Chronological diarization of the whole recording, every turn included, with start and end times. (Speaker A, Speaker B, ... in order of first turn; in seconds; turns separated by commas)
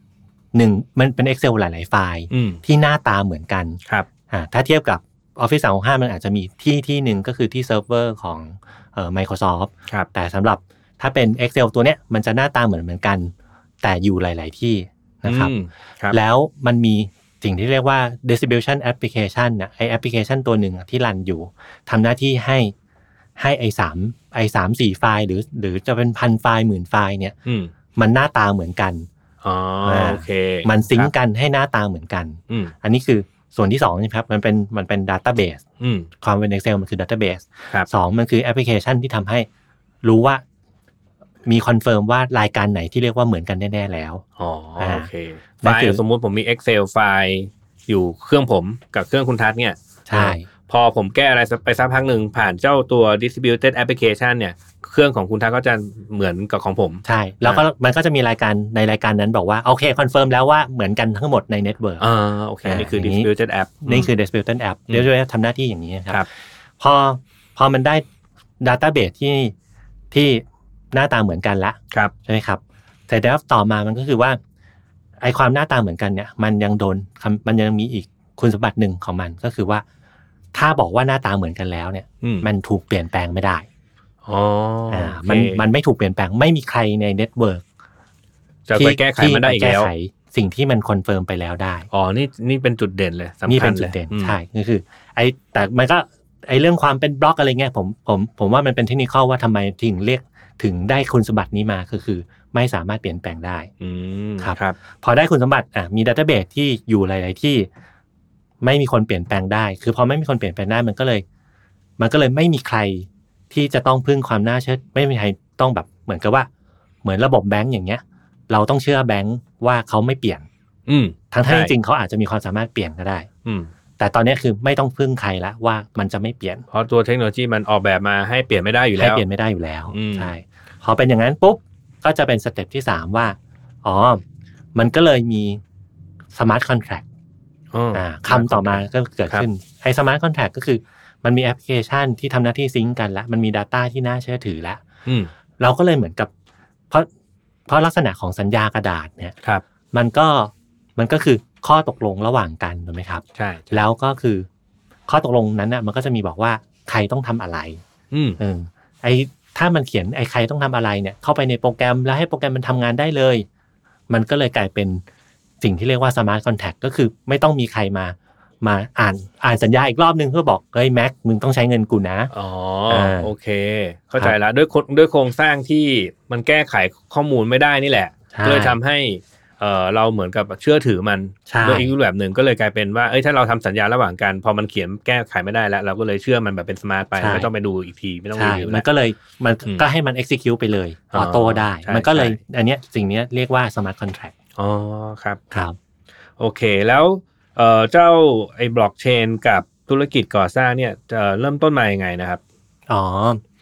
Speaker A: 0.5-15.5, Speaker B: 2.3-2.6, Speaker B: 15.2-16.2, Speaker A: 16.1-22.7, Speaker A: 23.4-27.4, Speaker B: 27.5-27.7, Speaker A: 28.0-29.1, Speaker B: 29.4-31.1, Speaker A: 29.9-35.6, Speaker B: 32.5-32.7, Speaker B: 35.8-36.1, Speaker A: 36.2-39.5, Speaker A: 40.0-40.4, Speaker A: 41.5-44.2, Speaker B: 44.4-57.6, Speaker A: 44.8-45.1, Speaker A: 45.6-46.0, Speaker A: 50.1-50.5, Speaker A: 57.0-62.0, Speaker B: 62.0-64.1, Speaker A: 62.6-63.3, Speaker A: 63.9-66.2, Speaker A: 66.8-68.0, Speaker A: 68.6-69.5, Speaker A: 70.1-74.4, Speaker A: 75.2-79.8, Speaker A: 80.5-83.7, Speaker B: 82.2-82.5, Speaker B: 84.3-85.6, Speaker A: 84.9-87.6, Speaker B: 88.7-89.9, Speaker A: 88.8-91.9, Speaker B: 91.9-94.4, Speaker A: 93.5-103.7, Speaker B: 103.8-104.8, Speaker A: 104.4-107.7, Speaker A: 108.6-111.2, Speaker A: 112.0-116.5, Speaker A: 117.0-120.5, Speaker B: 120.9-121.7, Speaker A: 121.3-123.3, Speaker B: 123.5-123.7, Speaker A: 124.0-126.7, Speaker B: 126.7-129.2, Speaker A: 129.0-134.2, Speaker B: 129.9-130.3, Speaker A: 134.8-135.6, Speaker A: 136.3-137.1, Speaker B: 137.7-139.4, Speaker A: 137.9-144.8, Speaker B: 145.1-145.3, Speaker A: 145.6-146.3, Speaker A: 147.7-149.3, Speaker A: 149.9-154.5, Speaker B: 153.4-153.8, Speaker A: 155.1-157.8, Speaker B: 158.1-158.4, Speaker A: 158.4-163.5, Speaker A: 164.1-165.0, Speaker A: 165.6-172.3, Speaker B: 172.3-188.9, Speaker A: 172.9-173.3, Speaker A: 178.3-178.8, Speaker A: 181.5-181.9, Speaker A: 187.2-187.5, Speaker A: 188.4-194.3, Speaker B: 191.1-192.4, Speaker B: 194.6-195.4, Speaker A: 195.5-195.8, Speaker B: 196.4-202.4, Speaker A: 202.9-203.4